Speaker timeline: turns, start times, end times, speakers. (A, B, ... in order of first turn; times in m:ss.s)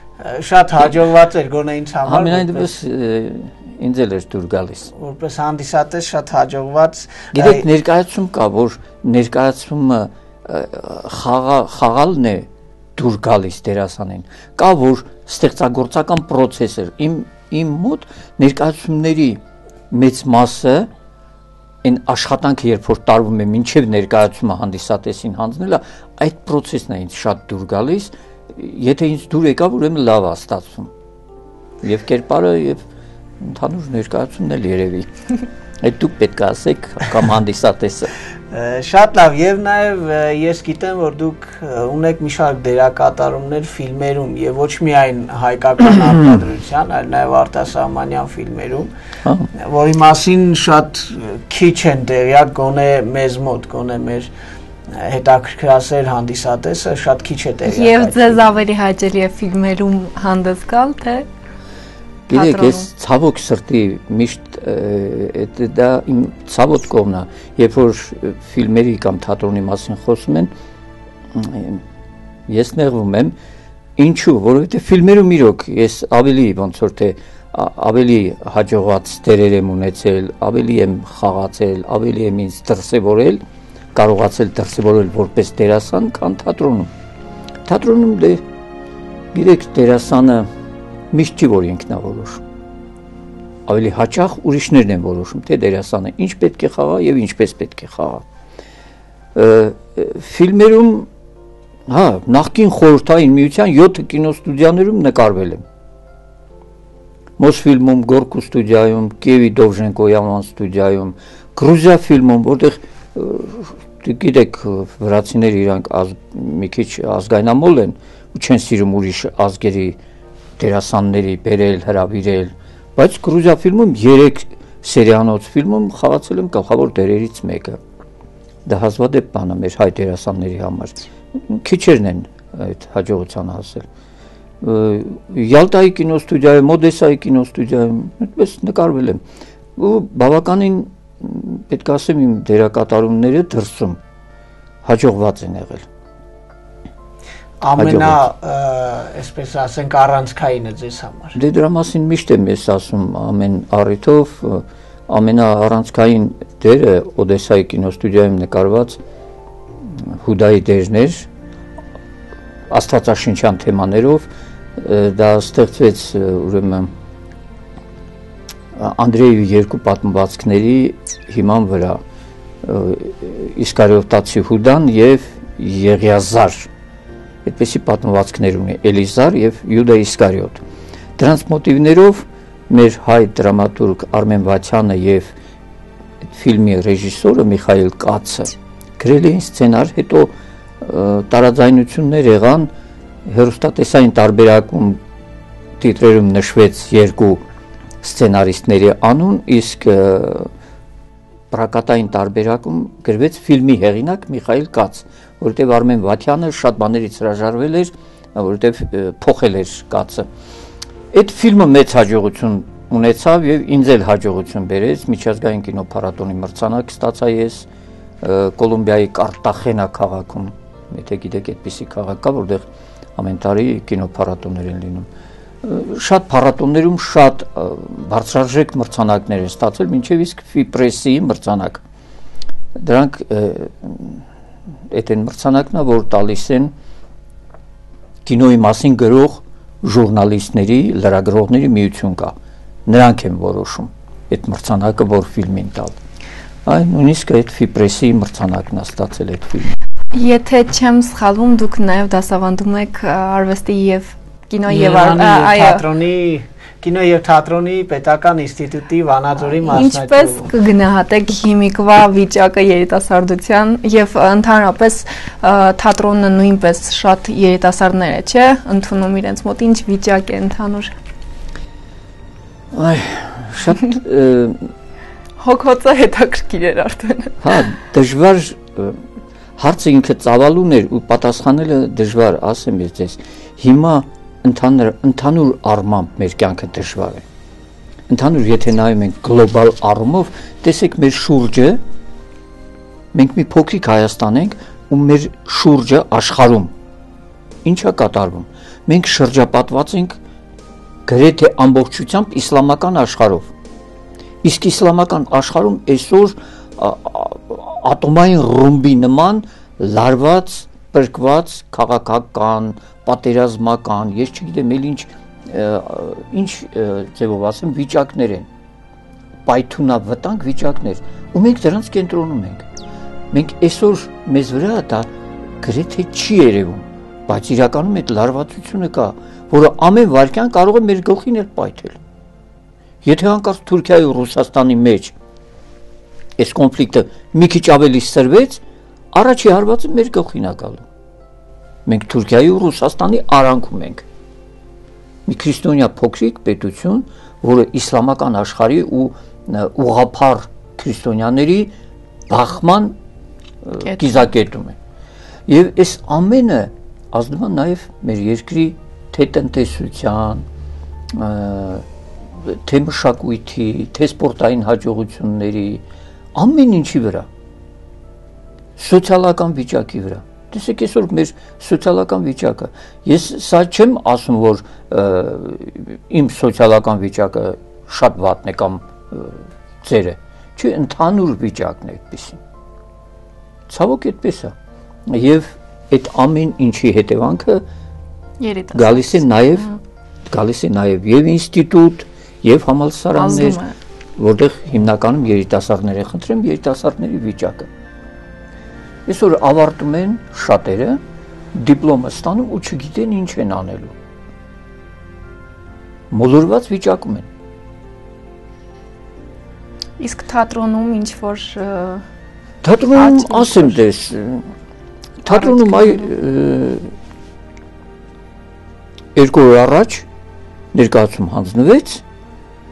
0:00.2-0:02.7 A
0:02.0-0:04.9 B
0:04.9-0:07.7 A
0:07.3-0:20.9 B
0:21.8-0:30.9 B
0:31.8-0:32.8 B
0:33.4-0:35.1 B
0:35.8-0:38.1 B
0:38.5-0:48.9 A
0:49.6-0:54.3 A
0:54.9-0:58.5 A
0:57.7-1:01.2 C
1:02.3-1:10.5 B
1:02.3-1:02.9 C
1:11.3-1:11.8 B
1:12.5-1:13.3 B
1:14.0-1:23.4 B
1:23.9-1:26.9 B
1:27.6-1:28.4 B
1:29.3-1:30.5 B
1:31.1-1:32.4 B
1:33.7-1:38.2 B
1:39.3-1:41.1 B
1:41.9-1:45.6 B
1:47.4-2:00.0 B
2:00.6-2:07.8 B
2:08.6-2:13.8 B
2:14.6-2:19.2 B
2:19.8-2:24.0 B
2:24.8-2:25.8 B
2:27.6-2:31.4 A
2:27.8-2:28.2 B
2:31.3-2:39.0 B
2:39.8-2:41.3 B
2:42.7-2:46.9 B
2:48.7-2:52.0 B
2:52.6-2:56.7 B
2:57.4-3:00.6 B
3:01.2-3:05.3 B
3:06.3-3:12.7 B
3:13.2-3:15.0 B
3:15.8-3:17.4 B
3:18.0-3:20.5 B
3:21.5-3:30.3 B
3:31.1-3:37.7 B
3:38.2-3:45.1 B
3:45.6-3:51.8 B
3:52.7-3:54.2 B
3:54.9-3:56.7 B
3:58.2-4:02.3 B
4:02.8-4:06.0 B
4:06.6-4:09.8 B
4:10.1-4:15.8 C
4:14.7-4:20.5 A
4:19.6-4:30.9 C
4:32.7-4:34.7 B
4:35.4-4:37.4 C
4:37.4-4:39.0 B
4:39.6-4:47.2 B
4:48.1-4:51.8 B
4:53.1-4:56.7 B
4:57.6-5:00.2 B
5:01.0-5:03.5 B
5:04.4-5:18.5 B
5:19.4-5:22.6 B
5:23.3-5:25.1 B
5:25.6-5:32.0 B
5:33.0-5:35.1 B
5:36.4-5:38.6 B
5:39.1-5:40.8 B
5:41.8-5:44.0 B
5:45.2-5:51.7 B
5:52.3-5:53.0 B
5:53.6-5:54.8 B
5:55.5-6:00.4 B
6:01.1-6:01.8 B
6:02.4-6:05.8 B
6:06.3-6:07.3 B
6:08.8-6:22.4 B
6:23.7-6:24.5 B
6:25.1-6:27.6 B
6:28.4-6:29.8 C
6:28.7-6:29.7 B
6:30.3-6:33.6 B
6:33.1-6:33.7 C
6:34.2-6:37.7 B
6:39.0-6:41.0 B
6:41.5-6:43.9 B
6:46.1-6:47.3 B
6:50.0-6:52.0 C
6:52.6-6:54.5 B
6:53.0-6:53.8 C
6:55.2-6:56.9 B
6:55.3-6:56.1 C
6:59.1-7:00.0 B
7:00.7-7:02.0 B